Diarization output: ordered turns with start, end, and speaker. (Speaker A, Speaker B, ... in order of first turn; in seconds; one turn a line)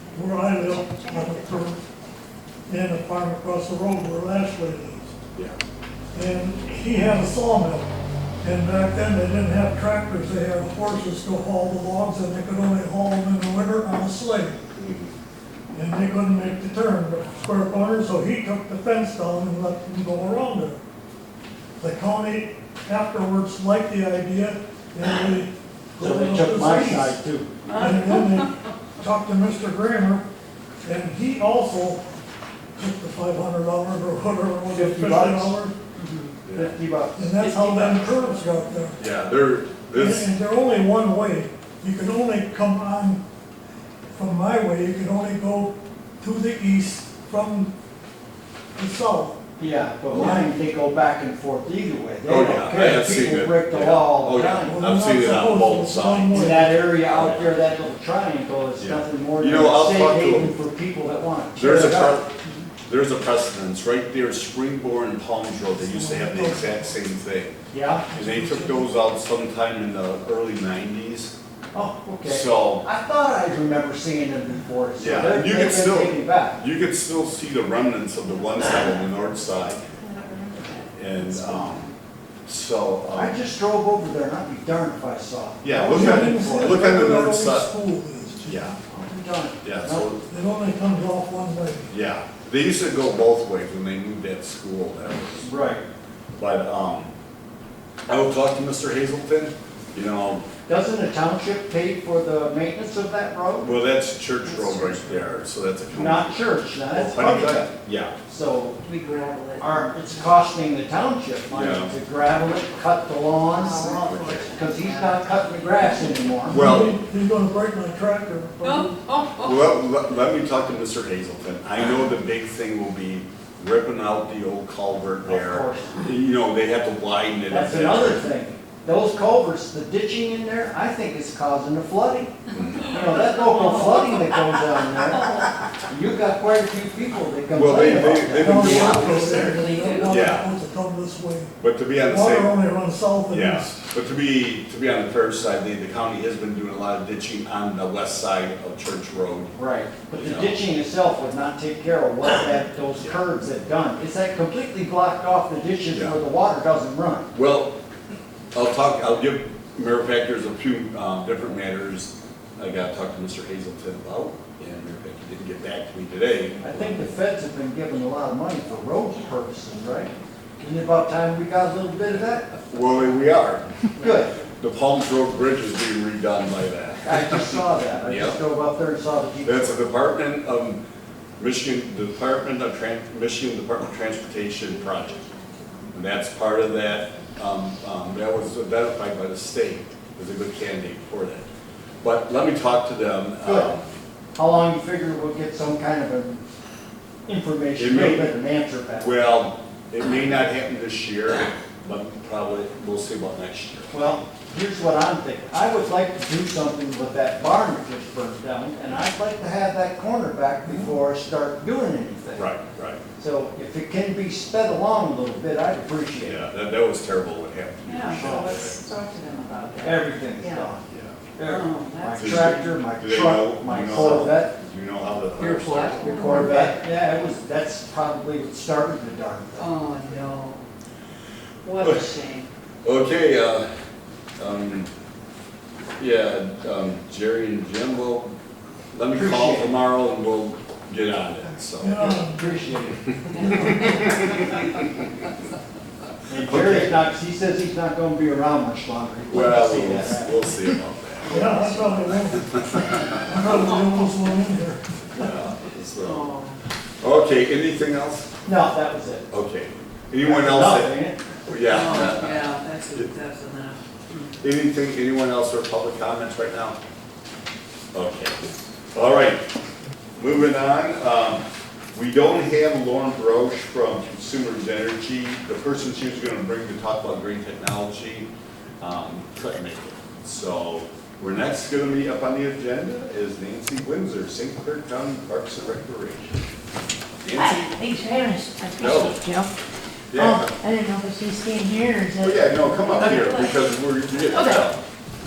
Speaker A: 0.1-1.8
Speaker A: 2.7-5.1
Speaker A: 6.1-14.6
Speaker B: 14.7-15.1
Speaker A: 15.7-20.8
Speaker A: 21.8-30.2
Speaker C: 26.0-27.5
Speaker D: 27.6-28.4
Speaker A: 30.8-32.0
Speaker A: 32.8-35.7
Speaker C: 34.7-35.5
Speaker D: 36.0-36.3
Speaker B: 36.4-36.7
Speaker C: 36.5-38.0
Speaker A: 37.2-39.0
Speaker B: 39.0-40.3
Speaker A: 39.9-43.2
Speaker A: 44.1-47.7
Speaker A: 48.8-49.4
Speaker C: 49.6-54.9
Speaker A: 50.1-50.5
Speaker B: 52.2-56.6
Speaker A: 54.7-56.9
Speaker C: 56.3-62.2
Speaker B: 57.1-57.4
Speaker B: 58.8-60.6
Speaker B: 61.5-62.3
Speaker B: 62.9-67.6
Speaker A: 65.7-66.9
Speaker C: 67.7-68.1
Speaker A: 68.1-68.9
Speaker B: 68.1-71.3
Speaker C: 71.7-76.6
Speaker B: 72.2-72.8
Speaker B: 75.0-79.9
Speaker E: 80.0-80.4
Speaker D: 80.4-81.8
Speaker B: 80.9-81.9
Speaker B: 82.5-83.4
Speaker C: 83.1-86.8
Speaker B: 85.6-87.7
Speaker A: 85.7-88.6
Speaker B: 88.4-88.8
Speaker C: 88.8-90.1
Speaker B: 89.6-90.2
Speaker A: 90.3-91.9
Speaker B: 91.9-95.5
Speaker C: 95.4-95.8
Speaker B: 96.3-97.1
Speaker B: 98.1-100.5
Speaker C: 100.7-103.7
Speaker B: 103.6-108.2
Speaker D: 104.4-105.4
Speaker C: 105.9-107.7
Speaker C: 108.2-108.8
Speaker D: 108.8-110.3
Speaker C: 109.6-116.7
Speaker B: 111.5-111.9
Speaker D: 113.5-115.9
Speaker B: 114.0-114.4
Speaker A: 116.5-119.2
Speaker B: 116.5-117.0
Speaker D: 118.6-119.6
Speaker B: 119.4-128.2
Speaker C: 125.2-126.1
Speaker C: 127.5-138.8
Speaker B: 132.5-133.0
Speaker D: 133.3-134.3
Speaker B: 137.5-139.4
Speaker A: 138.4-141.5
Speaker D: 138.7-140.3
Speaker B: 140.0-140.5
Speaker B: 141.6-142.6
Speaker A: 142.1-143.8
Speaker B: 143.3-149.5
Speaker C: 149.6-157.3
Speaker B: 150.2-150.6
Speaker B: 155.9-156.2
Speaker B: 157.3-157.7
Speaker B: 158.5-167.1
Speaker C: 166.6-172.6
Speaker B: 172.7-173.7
Speaker C: 173.9-174.3
Speaker B: 174.4-178.4
Speaker C: 177.0-179.8
Speaker B: 179.4-180.8
Speaker B: 181.4-185.2
Speaker B: 185.9-191.4
Speaker B: 192.0-193.9
Speaker C: 193.4-193.7
Speaker C: 194.3-196.4
Speaker C: 197.3-199.1
Speaker B: 197.8-198.3
Speaker B: 199.0-203.9
Speaker C: 203.9-212.5
Speaker B: 212.3-213.0
Speaker C: 213.2-216.4
Speaker B: 216.2-218.8
Speaker D: 217.8-220.7
Speaker C: 218.1-218.5
Speaker C: 219.8-220.8
Speaker B: 220.9-221.2
Speaker C: 221.3-224.6
Speaker D: 221.4-222.7
Speaker B: 222.1-226.5
Speaker D: 225.4-226.7
Speaker C: 226.0-229.7
Speaker D: 229.6-230.6
Speaker D: 231.6-232.5
Speaker B: 231.8-232.1
Speaker B: 232.8-233.7
Speaker B: 234.4-234.9
Speaker B: 236.0-238.3
Speaker B: 238.9-242.0
Speaker C: 239.1-239.8
Speaker A: 241.8-242.6
Speaker C: 242.0-243.9
Speaker B: 243.0-245.0
Speaker D: 243.4-243.7
Speaker C: 246.3-250.8
Speaker B: 246.3-247.0
Speaker B: 249.3-253.2
Speaker A: 251.3-255.3
Speaker C: 251.4-251.7
Speaker B: 255.1-256.3
Speaker D: 256.0-256.6
Speaker B: 257.0-258.3
Speaker C: 258.4-259.3
Speaker B: 259.3-260.9
Speaker C: 260.2-261.2
Speaker B: 261.4-263.1
Speaker D: 261.5-264.3
Speaker B: 264.4-266.8
Speaker B: 267.9-269.4
Speaker B: 270.1-278.3
Speaker B: 278.8-286.4
Speaker B: 287.2-287.9
Speaker E: 287.3-289.5
Speaker B: 288.8-289.2
Speaker B: 290.1-290.6
Speaker E: 290.1-293.5
Speaker B: 292.2-294.8
Speaker E: 294.3-294.6